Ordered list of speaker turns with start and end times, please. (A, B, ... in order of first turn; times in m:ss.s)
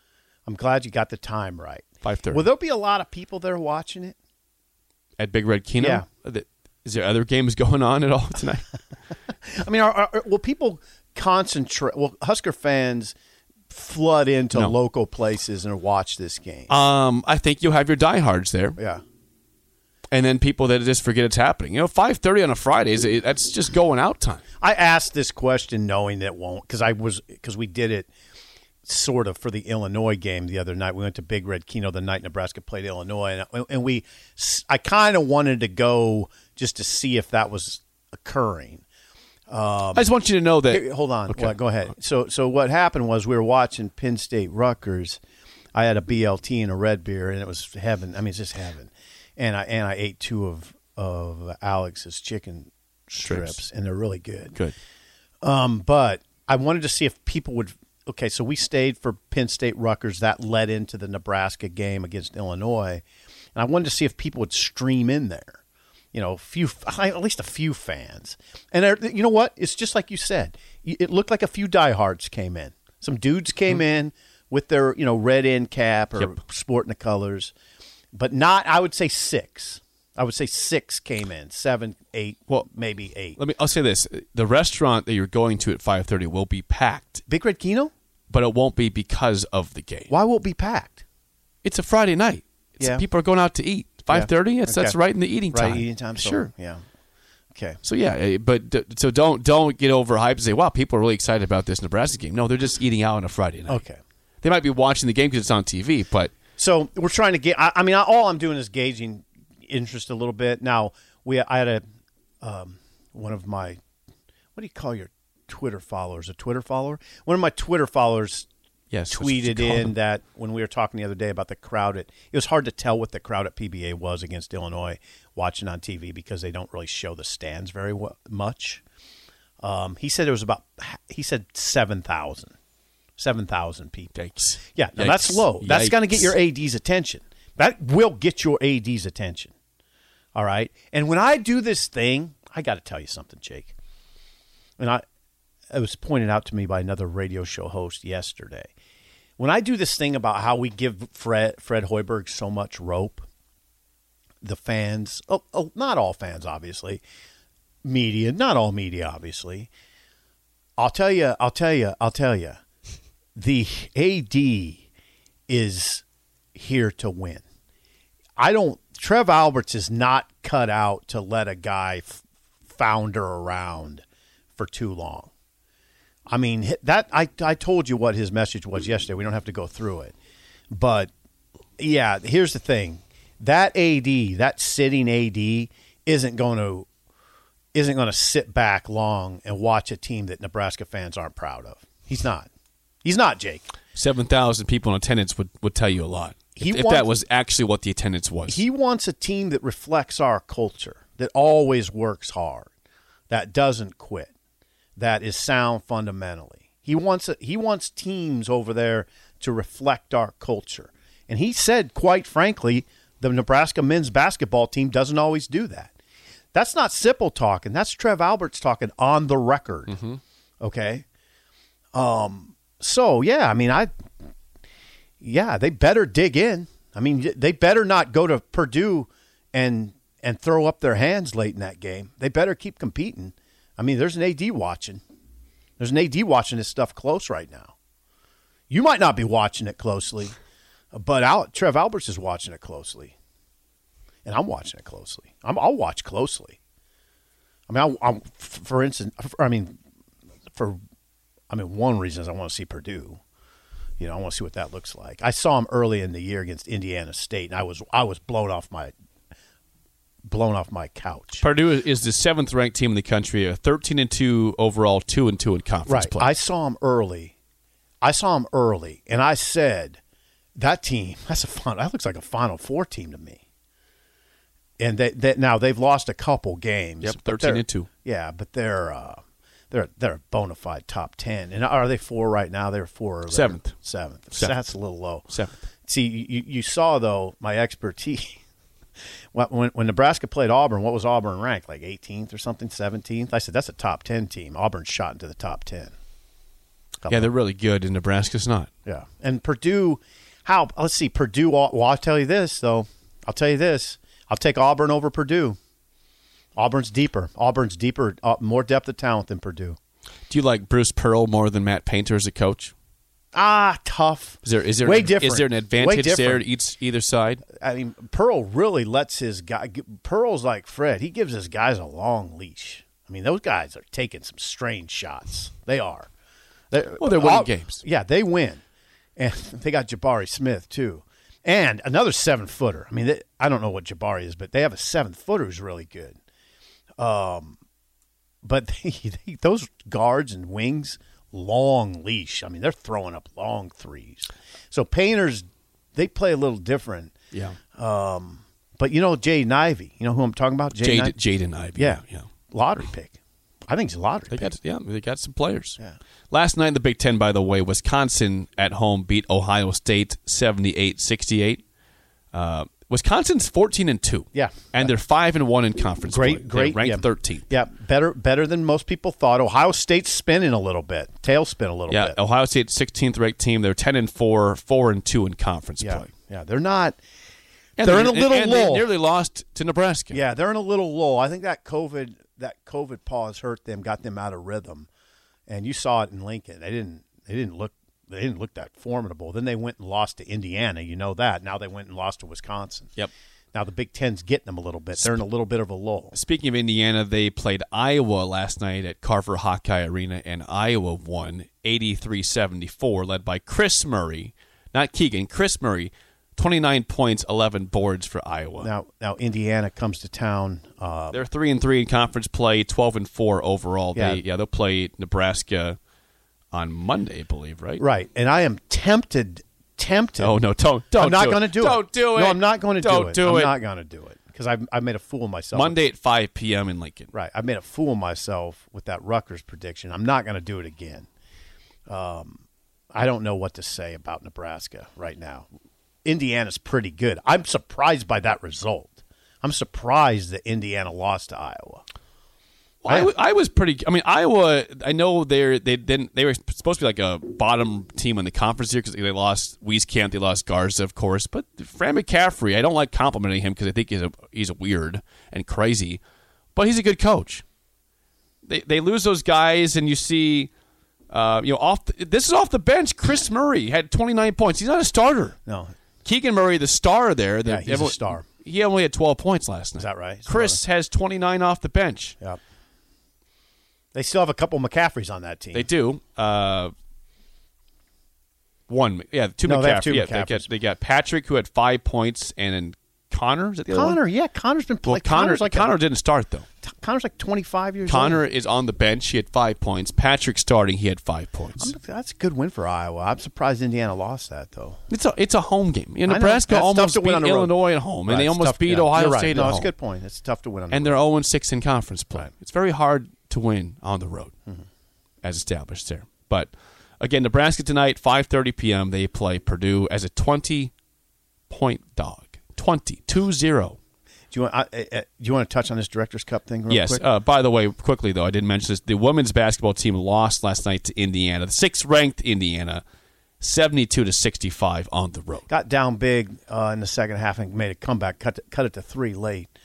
0:00.5-0:04.2 A
0:02.0-0:02.5 B
0:05.2-0:08.7 B
0:05.8-0:06.0 A
0:09.4-0:13.1 A
0:13.7-0:16.7 A
0:16.7-0:18.8 B
0:18.8-0:19.0 A
0:20.1-0:24.4 B
0:24.6-0:28.1 A
0:28.8-0:38.8 A
0:39.5-0:40.1 A
0:39.9-0:41.5 B
0:40.7-0:45.2 A
0:45.7-0:54.6 A
0:53.2-0:53.6 B
0:55.4-1:03.0 A
1:03.5-1:05.6 A
1:06.1-1:17.5 A
1:18.1-1:23.4 A
1:23.4-1:27.2 B
1:27.3-1:27.9 A
1:28.3-1:30.1 B
1:30.1-1:31.0 A
1:31.6-1:36.5 B
1:32.8-1:33.0 A
1:34.1-1:35.0 A
1:35.5-1:36.8 A
1:37.5-1:37.8 A
1:37.8-1:43.8 B
1:43.7-1:44.0 A
1:44.4-1:46.3 B
1:46.6-1:51.8 A
1:52.4-1:53.8 A
1:54.5-1:58.5 A
1:58.9-1:59.9 B
1:59.1-2:08.8 A
2:09.6-2:12.5 A
2:13.2-2:19.5 A
2:14.1-2:16.3 B
2:20.4-2:23.7 A
2:24.8-2:25.0 A
2:25.7-2:28.7 A
2:29.4-2:33.2 A
2:34.4-2:37.0 A
2:37.8-2:39.7 A
2:40.8-2:42.6 A
2:43.4-2:44.8 A
2:45.5-2:47.4 A
2:48.4-2:54.0 A
2:54.6-2:55.3 A
2:56.3-3:00.1 A
3:00.7-3:01.1 A
3:01.8-3:06.9 A
3:07.7-3:12.5 A
3:13.0-3:13.7 A
3:14.0-3:18.6 B
3:16.6-3:17.1 A
3:18.5-3:22.7 A
3:23.3-3:24.3 A
3:25.0-3:35.9 A
3:36.5-3:40.0 A
3:39.9-3:40.2 B
3:40.6-3:41.0 A
3:41.9-3:43.9 A
3:45.2-3:55.0 A
3:55.8-3:57.7 A
3:58.7-4:00.4 A
4:00.9-4:03.1 A
4:04.2-4:06.6 A
4:07.7-4:09.8 A
4:10.5-4:10.8 A
4:11.5-4:13.2 A
4:14.0-4:18.9 A
4:20.2-4:21.4 A
4:21.4-4:26.3 B
4:25.9-4:27.4 A
4:28.0-4:30.0 A
4:30.6-4:33.4 A
4:34.8-4:45.3 A
4:37.0-4:37.9 B
4:43.3-4:43.7 B
4:45.3-4:45.6 B
4:45.9-4:48.4 A
4:49.3-4:55.9 A
4:57.0-4:57.3 A
4:57.1-4:58.7 B
4:58.9-5:05.6 A
5:06.6-5:09.8 A
5:10.3-5:12.7 B
5:13.3-5:16.4 A
5:14.4-5:17.4 B
5:17.5-5:26.1 A
5:26.7-5:28.6 A
5:27.0-5:27.8 B
5:29.2-5:36.2 A
5:37.0-5:37.6 A
5:38.4-5:47.1 A
5:47.3-5:47.6 B
5:47.7-5:51.1 A
5:50.8-5:52.3 B
5:51.8-5:54.5 A
5:54.3-5:55.8 B
5:56.3-6:01.6 B
6:02.3-6:07.5 B
6:04.3-6:04.9 A
6:06.1-6:12.2 A
6:11.9-6:16.1 B
6:15.8-6:17.0 A
6:17.8-6:20.2 B
6:17.8-6:18.9 A
6:20.1-6:24.9 A
6:25.5-6:32.9 A
6:33.5-6:36.2 A
6:36.1-6:48.7 B
6:48.6-6:51.2 A
6:51.1-6:55.8 B
6:54.0-6:54.2 A
6:56.5-6:57.8 B
6:57.8-7:00.4 A
7:00.2-7:03.5 B
7:01.0-7:05.8 A
7:05.5-7:07.1 B
7:07.1-7:11.1 A
7:11.9-7:15.5 A
7:16.0-7:21.8 A
7:22.8-7:36.0 B
7:36.6-7:37.4 B
7:38.4-7:40.5 B
7:41.1-7:45.4 B
7:45.5-7:45.7 A
7:46.0-7:52.2 B
7:47.4-7:48.2 A
7:49.8-7:50.6 A
7:53.9-7:55.7 A
7:55.5-7:56.7 B
7:58.7-8:04.0 B
7:59.4-8:00.5 A
8:03.7-8:05.7 A
8:04.8-8:06.5 B
8:06.6-8:08.2 A
8:07.8-8:11.7 B
8:11.6-8:14.8 A
8:14.9-8:19.7 B
8:16.1-8:17.5 A
8:18.1-8:21.0 A
8:20.7-8:24.3 B
8:25.2-8:30.7 B
8:31.5-8:33.8 B
8:34.3-8:37.0 A
8:36.7-8:42.8 B
8:43.4-8:45.5 B
8:45.5-8:49.5 A